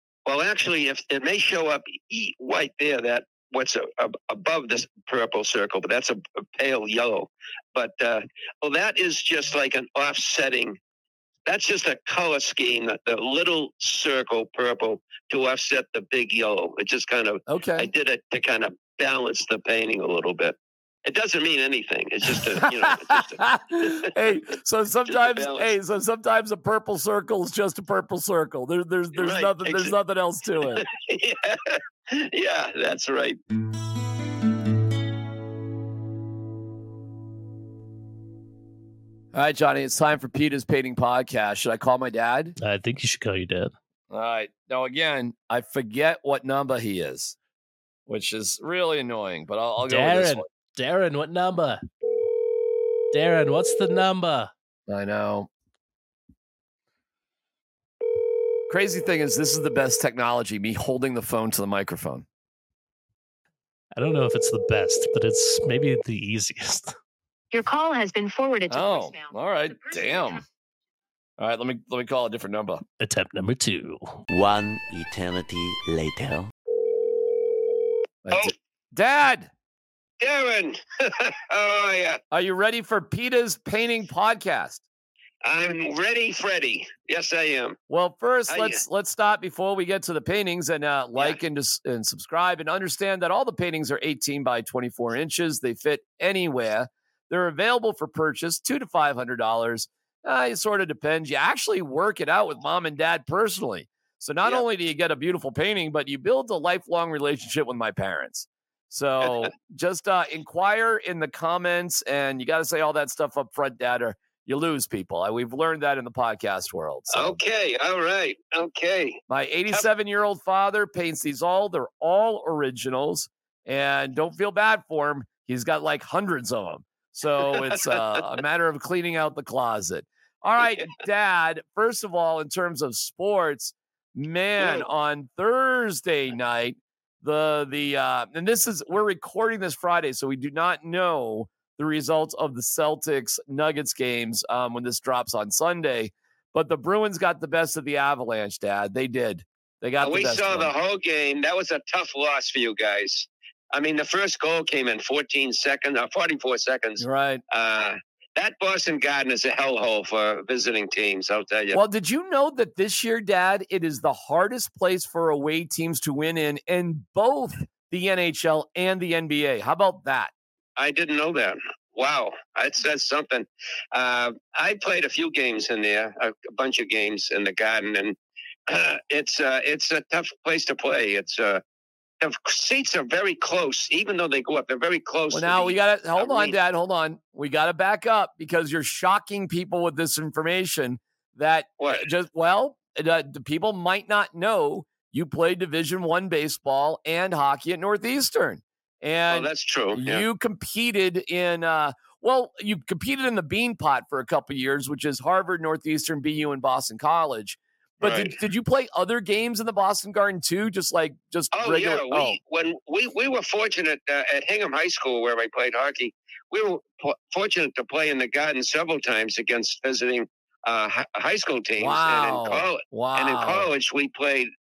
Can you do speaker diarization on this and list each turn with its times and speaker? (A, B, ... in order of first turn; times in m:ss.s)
0:00.2-0:10.8 A
0:11.4-0:24.1 A
0:17.5-0:17.9 B
0:22.3-0:30.8 B
0:25.1-0:25.7 A
0:29.1-0:29.9 A
0:30.7-0:33.4 A
0:39.3-0:42.5 B
0:42.6-0:43.7 C
0:44.1-0:47.4 B
0:48.1-0:50.4 B
0:49.8-0:51.8 C
0:53.1-0:54.5 C
0:54.9-0:55.5 B
0:58.7-1:02.2 B
1:03.9-1:06.9 C
1:07.5-1:10.4 D
1:08.7-1:10.4 B
1:11.4-1:12.8 B
1:13.0-1:14.2 C
1:14.3-1:16.5 E
1:18.2-1:19.5 B
1:20.2-1:22.2 A
1:22.3-1:24.8 B
1:25.4-1:27.8 A
1:27.9-1:57.4 B
1:28.5-1:28.8 A
1:57.1-1:59.8 A
1:59.3-2:30.7 B
2:07.5-2:08.0 A
2:14.6-2:14.8 A
2:30.0-2:41.8 A
2:37.0-2:37.4 B
2:41.7-2:50.3 B
2:50.8-2:58.1 A
2:58.7-3:01.6 A
3:02.2-3:06.6 A
3:05.3-3:32.4 B
3:11.8-3:12.1 A
3:19.3-3:20.2 A
3:28.0-3:28.3 A
3:31.5-3:44.5 A
3:41.8-3:43.7 B